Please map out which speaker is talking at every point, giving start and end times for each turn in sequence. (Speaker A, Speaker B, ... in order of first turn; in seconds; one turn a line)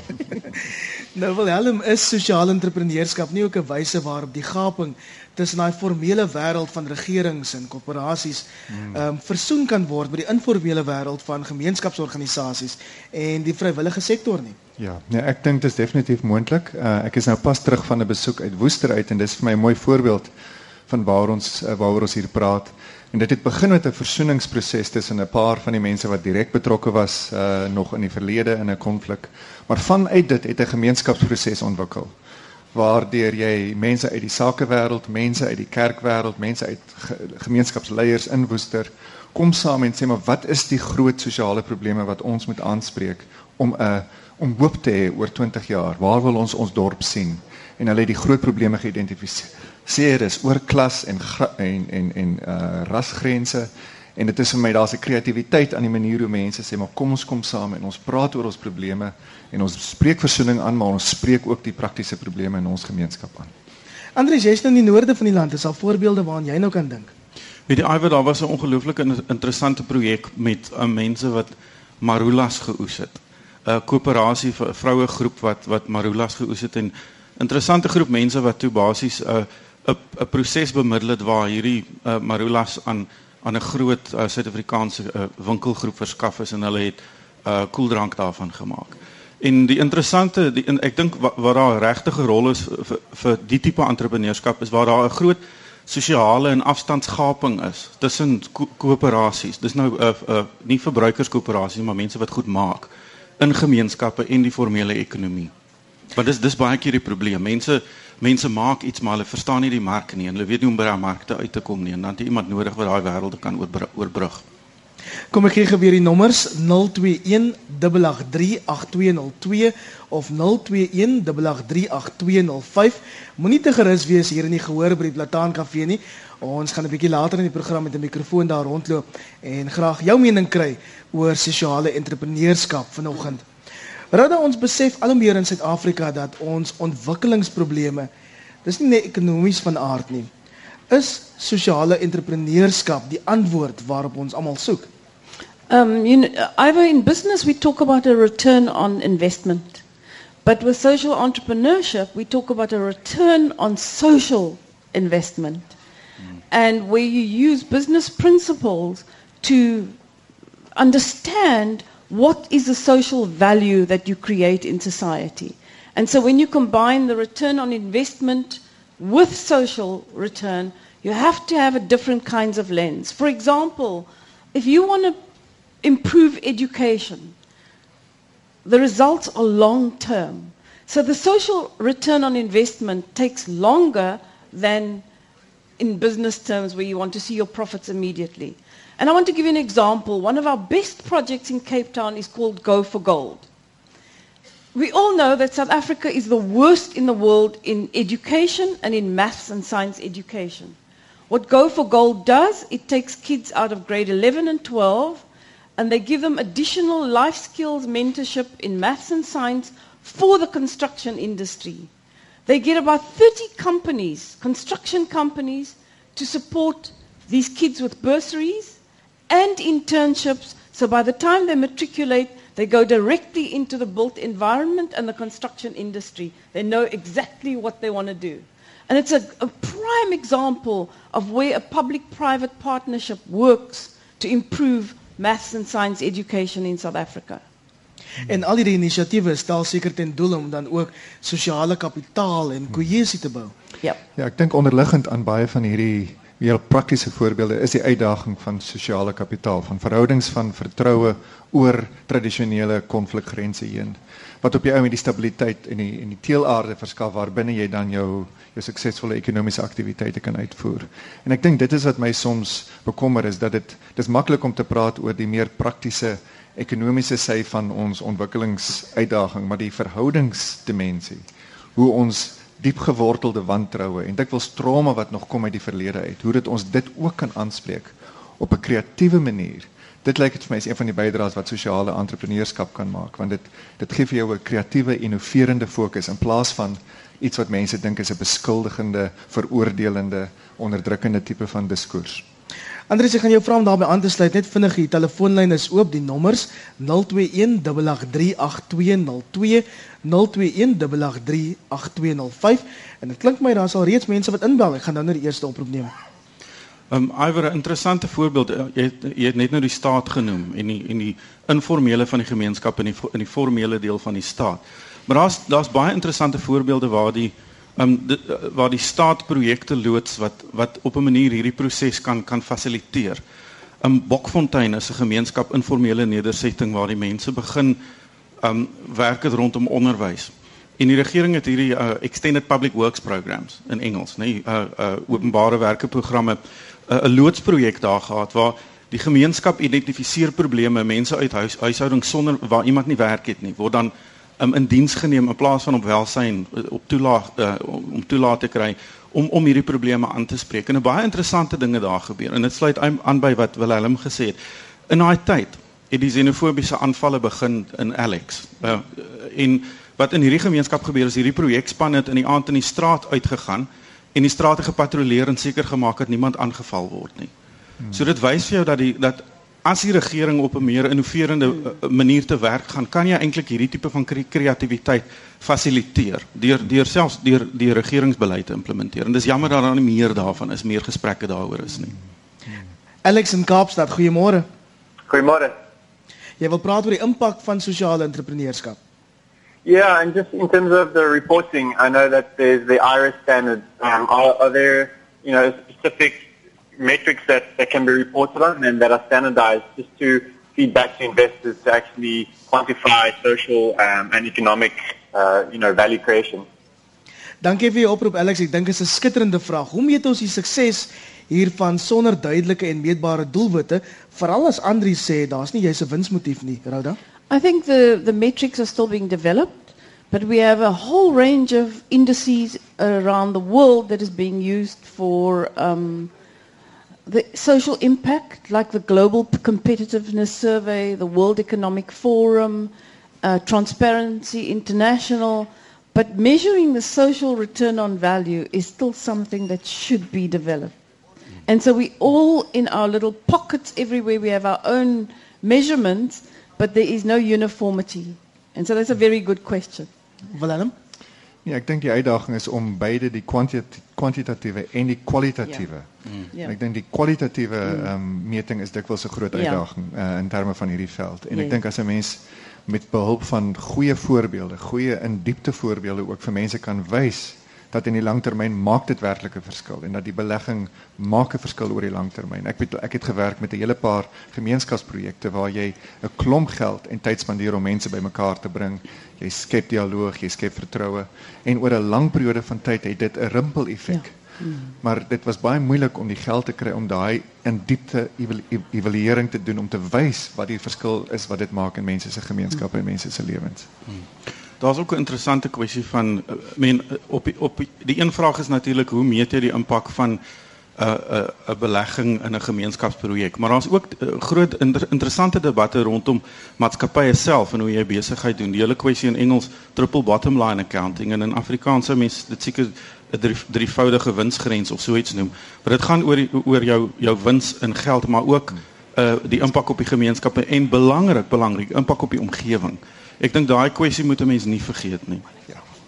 Speaker A: 0.7-14.6
Speaker B: 8.7-9.0
Speaker B: 14.8-20.3
Speaker B: 20.9-32.1
Speaker B: 32.7-63.5
Speaker A: 64.2-67.1
Speaker C: 67.7-105.5
Speaker C: 106.2-114.4
Speaker A: 115.3-133.4
Speaker A: 134.1-138.1
Speaker A: 138.7-140.3
Speaker A: 140.9-144.9
Speaker D: 145.7-149.8
Speaker D: 150.4-155.7
Speaker D: 156.5-160.0
Speaker D: 160.8-175.2
Speaker D: 175.8-177.3
Speaker D: 178.7-185.0
Speaker D: 185.8-193.5
Speaker D: 194.7-200.8
Speaker D: 201.3-205.2
Speaker D: 205.8-211.9
Speaker D: 212.5-218.8
Speaker D: 219.3-237.4
Speaker A: 238.2-243.5
Speaker B: 244.2-292.2
Speaker A: 292.9-305.9
Speaker C: 306.9-323.2
Speaker C: 323.8-327.8
Speaker C: 328.4-354.4
Speaker C: 354.9-367.3
Speaker C: 367.9-382.0
Speaker A: 383.1-384.5
Speaker E: 385.1-385.5
Speaker A: 386.4-388.8
Speaker E: 389.6-396.2
Speaker E: 396.8-406.5
Speaker A: 407.4-417.0
Speaker D: 417.3-426.1
Speaker D: 427.1-432.7
Speaker D: 433.2-440.7
Speaker D: 441.5-449.9
Speaker A: 450.3-450.7
Speaker B: 451.4-484.2
Speaker D: 459.4-459.6
Speaker D: 461.3-461.6
Speaker D: 483.9-484.7
Speaker B: 484.8-493.7
Speaker C: 494.6-500.2
Speaker C: 500.8-525.2